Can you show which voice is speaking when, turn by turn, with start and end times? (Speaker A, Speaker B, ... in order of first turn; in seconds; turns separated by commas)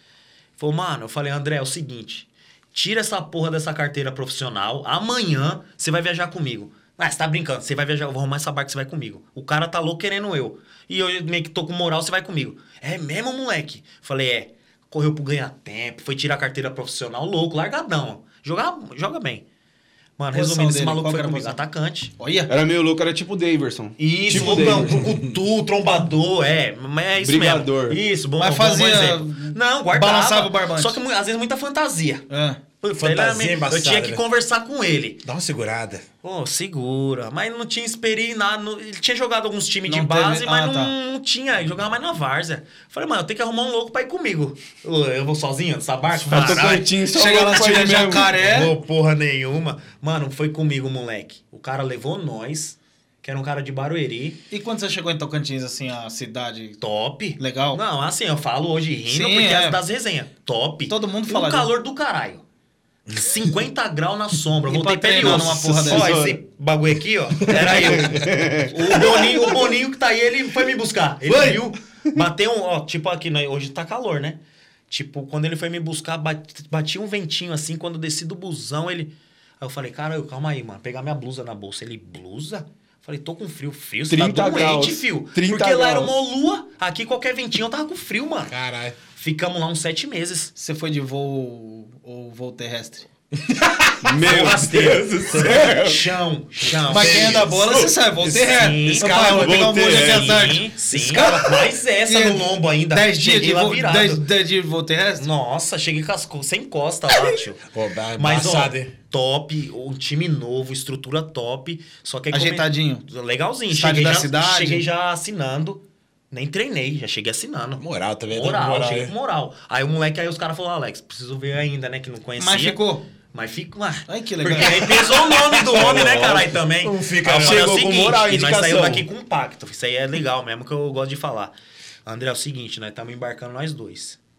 Speaker A: 0.6-19.4, Speaker A: 20.2-22.1, Speaker B: 20.3-21.6, Speaker B: 22.2-22.5, Speaker C: 22.5-25.1, Speaker A: 24.0-32.3, Speaker D: 24.3-25.3, Speaker C: 27.2-28.0, Speaker B: 28.4-31.0, Speaker B: 32.3-32.6, Speaker A: 32.8-35.2, Speaker D: 33.0-34.2, Speaker D: 35.2-36.0, Speaker A: 36.2-46.9, Speaker B: 39.9-40.9, Speaker C: 46.2-48.3, Speaker B: 46.4-48.7, Speaker A: 47.6-54.4, Speaker B: 54.5-56.8, Speaker A: 56.8-62.4, Speaker B: 57.4-57.8, Speaker B: 59.1-59.8, Speaker B: 60.9-61.7, Speaker A: 63.1-88.5, Speaker D: 63.1-63.4, Speaker B: 64.7-66.2, Speaker C: 65.2-66.4, Speaker D: 67.5-68.4, Speaker C: 67.5-69.5, Speaker C: 71.3-71.6, Speaker C: 84.1-86.2, Speaker D: 88.5-89.0, Speaker A: 89.2-90.5, Speaker B: 90.6-93.1, Speaker D: 93.4-96.0, Speaker C: 94.0-96.0, Speaker A: 94.2-97.5, Speaker D: 96.8-100.4, Speaker B: 96.9-101.5, Speaker A: 98.3-104.2, Speaker C: 99.3-100.5, Speaker D: 100.9-101.7, Speaker B: 102.0-105.3, Speaker A: 105.2-107.7, Speaker D: 107.7-108.9, Speaker A: 108.2-122.8, Speaker B: 112.3-113.0, Speaker B: 113.7-114.9, Speaker D: 117.8-119.1, Speaker B: 122.4-123.0, Speaker A: 123.3-131.5, Speaker B: 124.1-125.0, Speaker D: 124.9-127.7, Speaker C: 127.2-129.1, Speaker A: 132.1-134.2